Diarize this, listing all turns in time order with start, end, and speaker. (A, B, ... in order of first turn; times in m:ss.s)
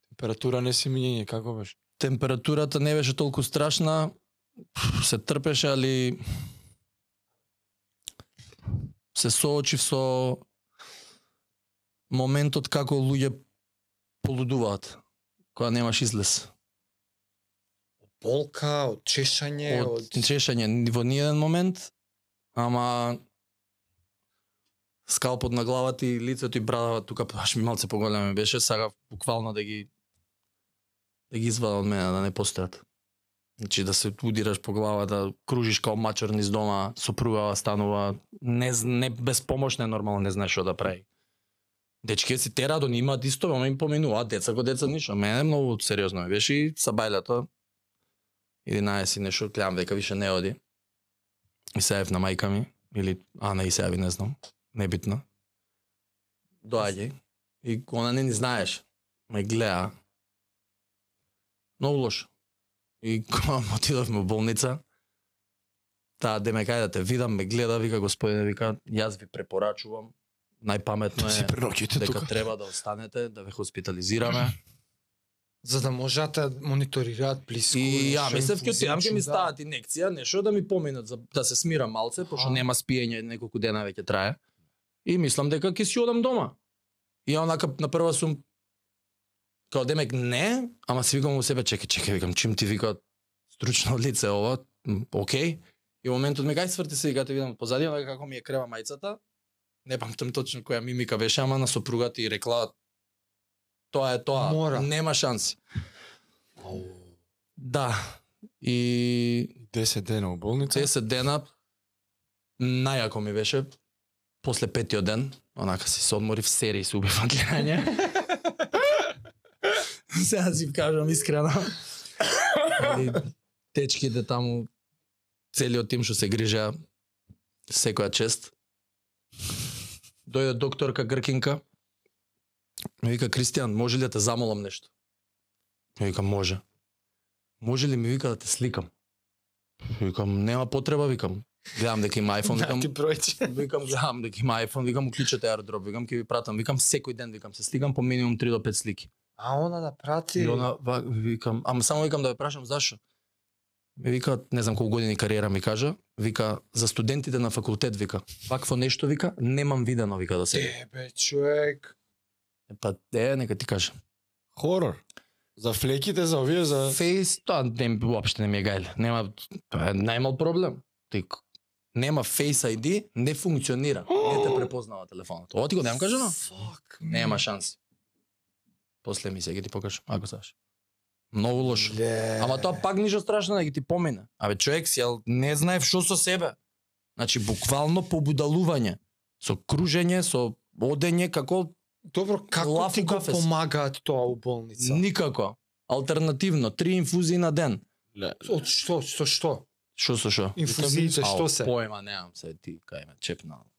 0:00.1-0:01.8 A
0:02.0-0:04.1 B
0:04.7-0:06.2 B
0:09.1-0:10.4 B
0:12.1-0:13.4 B
0:14.2-0:15.0 B
0:15.5-0:16.5 B
0:18.2-0:20.2 C
0:19.7-0:21.9 B
0:22.5-0:23.2 B
0:25.1-0:29.9 B
0:31.3-0:32.8 B
0:33.6-0:41.0 B
0:42.0-0:47.5 B
0:48.6-0:50.6 B
0:51.7-0:55.2 B
0:56.6-0:59.9 B
1:01.8-1:02.3 B
1:03.0-1:04.8 B
1:06.2-1:14.6 B
1:11.2-1:12.3 A
1:15.6-1:19.5 C
1:17.7-1:24.4 B
1:22.3-1:22.6 C
1:25.0-1:26.6 B
1:27.2-1:28.4 B
1:29.7-1:39.2 B
1:39.8-1:42.7 B
1:43.9-1:45.6 B
1:44.4-1:44.9 C
1:47.6-1:49.6 B
1:49.6-1:50.9 A
1:50.7-1:51.5 B
1:52.6-1:53.7 B
1:54.4-1:58.3 B
2:00.1-2:01.8 B
2:02.5-2:04.7 B
2:05.5-2:06.7 B
2:07.7-2:08.5 B
2:10.3-2:11.6 B
2:13.0-2:14.9 B
2:16.0-2:16.6 B
2:17.6-2:18.9 B
2:19.9-2:29.1 B
2:22.4-2:23.5 C
2:29.4-2:30.7 C
2:30.4-2:33.0 B
2:34.0-2:40.7 B
2:40.5-2:41.9 C
2:42.7-2:43.9 B
2:44.6-2:45.0 A
2:45.6-2:47.0 A
2:46.9-2:51.4 B
2:51.9-2:56.4 B
2:54.1-2:54.6 A
2:56.4-2:57.4 C
2:57.1-2:57.8 B
2:59.0-3:00.5 B
3:01.3-3:06.6 B
3:01.6-3:02.8 C
3:07.2-3:11.7 B
3:12.1-3:15.0 C
3:12.6-3:13.5 B
3:14.8-3:17.8 B
3:18.1-3:18.4 A
3:18.4-3:19.6 C
3:20.0-3:23.7 B
3:20.6-3:21.7 C